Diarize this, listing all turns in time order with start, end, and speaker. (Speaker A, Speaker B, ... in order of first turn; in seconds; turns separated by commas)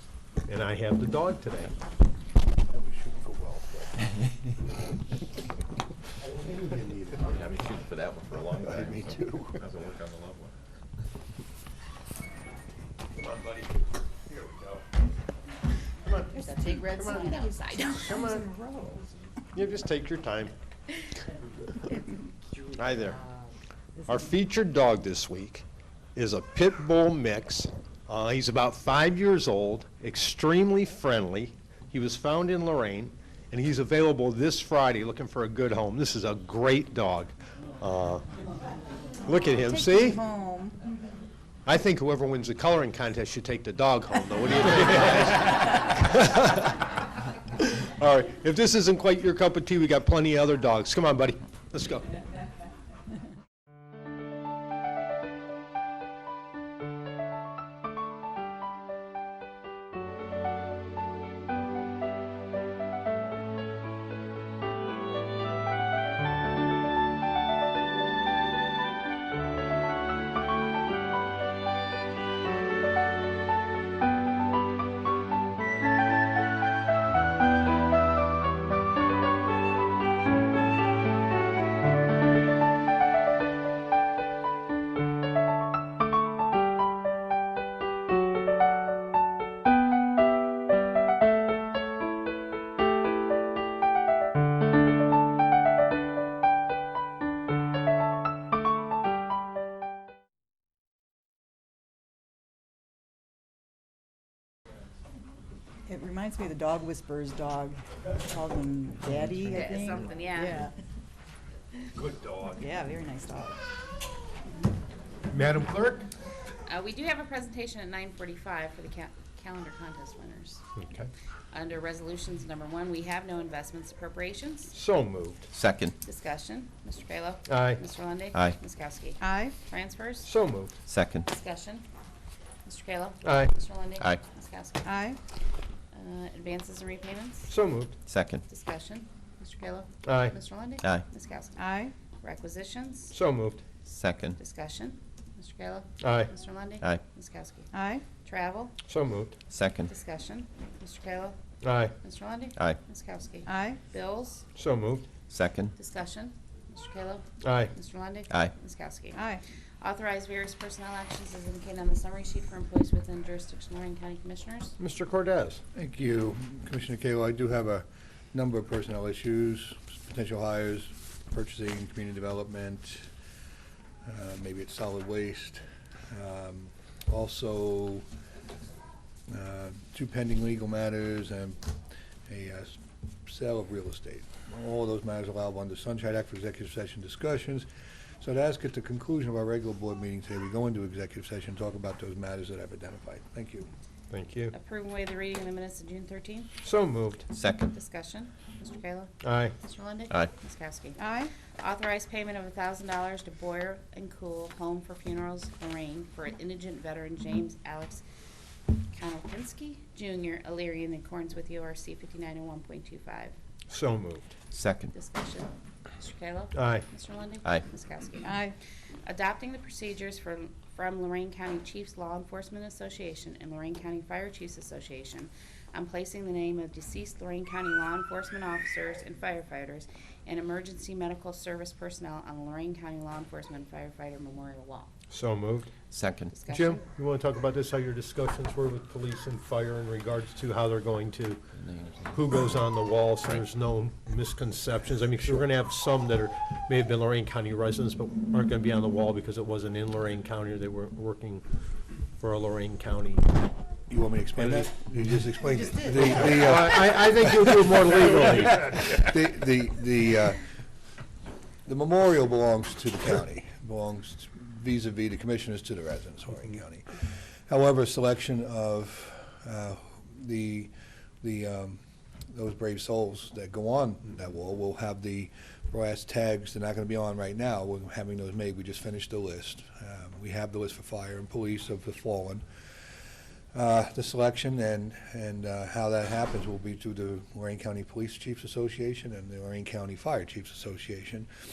Speaker A: 0.5-1.8, Speaker B: 2.7-4.1, Speaker A: 6.5-7.1, Speaker C: 7.2-10.5, Speaker B: 8.6-9.6, Speaker A: 14.3-14.8, Speaker A: 16.1-18.4, Speaker D: 16.3-18.0, Speaker E: 17.2-19.3, Speaker A: 19.5-20.5, Speaker A: 22.8-23.2, Speaker A: 24.0-38.2, Speaker A: 39.2-40.2, Speaker E: 39.7-40.8, Speaker A: 41.7-47.0, Speaker A: 47.6-52.1, Speaker E: 105.9-110.7, Speaker D: 109.4-110.7, Speaker A: 112.0-112.7, Speaker E: 112.6-113.6, Speaker A: 115.3-116.1, Speaker D: 116.7-120.7, Speaker A: 120.8-121.1, Speaker D: 121.5-124.7, Speaker A: 124.7-125.5, Speaker C: 125.5-125.9, Speaker D: 126.0-130.3, Speaker A: 127.5-127.8, Speaker E: 129.2-129.6, Speaker A: 130.2-130.7, Speaker C: 130.9-131.3, Speaker D: 131.3-131.8, Speaker D: 132.7-135.0, Speaker A: 133.2-133.5, Speaker E: 134.8-135.2, Speaker D: 135.9-137.5, Speaker A: 137.5-138.0, Speaker C: 138.1-138.4, Speaker D: 138.5-143.1, Speaker A: 140.0-140.4, Speaker E: 141.6-141.9, Speaker A: 143.1-143.6, Speaker C: 143.9-144.4, Speaker D: 144.4-148.8, Speaker A: 146.0-146.3, Speaker E: 147.7-148.1, Speaker A: 148.9-149.4, Speaker C: 149.5-149.9, Speaker D: 149.9-151.4, Speaker A: 151.6-151.9, Speaker D: 152.0-154.5, Speaker E: 153.5-153.8, Speaker A: 154.6-155.1, Speaker C: 155.3-155.7, Speaker D: 155.8-159.3, Speaker A: 157.4-157.7, Speaker E: 159.2-159.4, Speaker D: 159.8-164.8, Speaker A: 164.8-165.6, Speaker B: 165.8-173.1, Speaker B: 174.1-178.1, Speaker B: 179.3-181.6, Speaker B: 182.3-187.7, Speaker B: 188.2-193.7, Speaker A: 194.1-194.6, Speaker D: 194.5-196.5, Speaker A: 196.6-197.3, Speaker C: 197.3-197.7, Speaker D: 197.7-208.0, Speaker A: 199.2-199.5, Speaker E: 201.0-201.3, Speaker D: 208.9-213.3, Speaker A: 213.7-214.3, Speaker C: 214.5-214.9, Speaker D: 214.9-218.5, Speaker A: 216.5-216.8, Speaker E: 218.2-218.6, Speaker D: 219.1-234.9, Speaker A: 235.1-235.7, Speaker C: 235.9-236.3, Speaker D: 236.3-236.8, Speaker A: 236.5-241.4, Speaker A: 242.1-251.4, Speaker A: 252.2-253.2, Speaker B: 253.9-257.7, Speaker A: 254.4-254.7, Speaker E: 255.7-256.0, Speaker A: 256.0-258.9, Speaker B: 258.6-260.4, Speaker B: 261.7-271.8, Speaker B: 272.3-282.4, Speaker B: 283.5-291.3